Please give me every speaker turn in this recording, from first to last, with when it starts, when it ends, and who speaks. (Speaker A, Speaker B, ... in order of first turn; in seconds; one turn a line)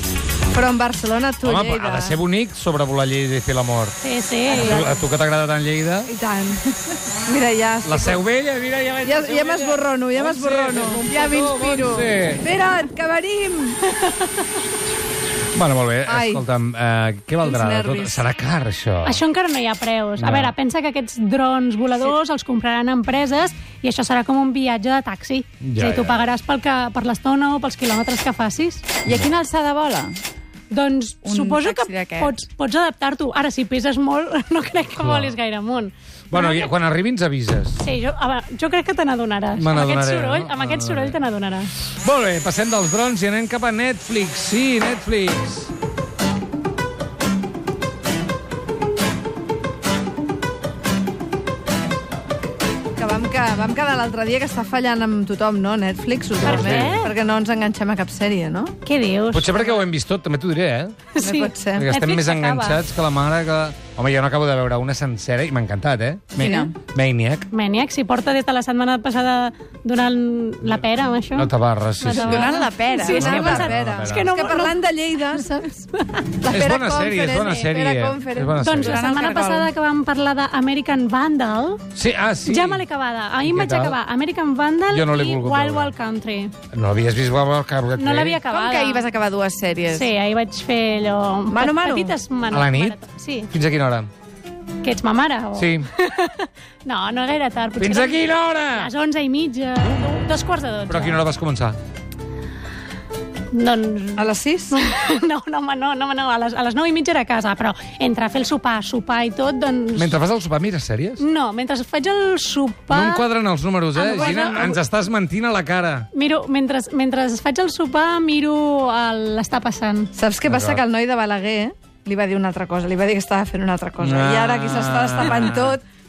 Speaker A: 0.5-2.2
Speaker B: 1.4-4.0
Speaker C: 4.0-4.8
Speaker A: 4.5-4.9
Speaker B: 4.5-6.1
Speaker A: 6.1-6.8
Speaker A: 7.3-8.2
Speaker B: 7.8-12.4
Speaker A: 9.0-11.1
Speaker D: 11.1-12.2
Speaker A: 12.4-13.8
Speaker B: 15.5-19.2
Speaker A: 16.1-16.4
Speaker A: 17.4-18.3
Speaker C: 19.0-28.9
Speaker B: 20.2-20.5
Speaker B: 25.6-26.2
Speaker D: 29.1-30.2
Speaker C: 30.7-36.7
Speaker D: 31.2-32.4
Speaker B: 35.0-35.4
Speaker B: 36.3-37.8
Speaker C: 37.8-41.8
Speaker B: 39.6-41.1
Speaker B: 42.0-45.7
Speaker A: 53.0-58.7
Speaker B: 56.4-57.1
Speaker C: 56.4-57.1
Speaker C: 58.9-59.7
Speaker B: 59.3-61.1
Speaker C: 61.1-62.8
Speaker A: 61.2-61.9
Speaker B: 61.8-67.5
Speaker D: 66.4-66.8
Speaker A: 66.4-66.7
Speaker C: 67.5-75.4
Speaker B: 71.3-74.4
Speaker D: 72.1-73.7
Speaker A: 73.0-75.9
Speaker A: 76.4-78.8
Speaker B: 76.5-79.0
Speaker C: 78.6-81.8
Speaker D: 78.7-79.7
Speaker B: 82.0-82.8
Speaker C: 82.5-86.5
Speaker B: 83.4-84.0
Speaker B: 84.9-85.9
Speaker B: 86.7-88.4
Speaker C: 88.0-89.1
Speaker D: 88.5-90.1
Speaker C: 89.9-93.5
Speaker D: 91.5-92.1
Speaker B: 92.5-94.1
Speaker C: 94.8-101.2
Speaker B: 95.6-95.9
Speaker B: 97.8-98.9
Speaker B: 100.9-101.8
Speaker C: 103.5-110.2
Speaker A: 104.2-104.8
Speaker B: 110.0-111.2
Speaker C: 111.2-113.3
Speaker B: 112.9-116.1
Speaker C: 114.0-114.8
Speaker A: 114.0-114.8
Speaker C: 116.1-120.1
Speaker A: 120.2-125.8
Speaker B: 120.5-120.8
Speaker B: 124.0-125.8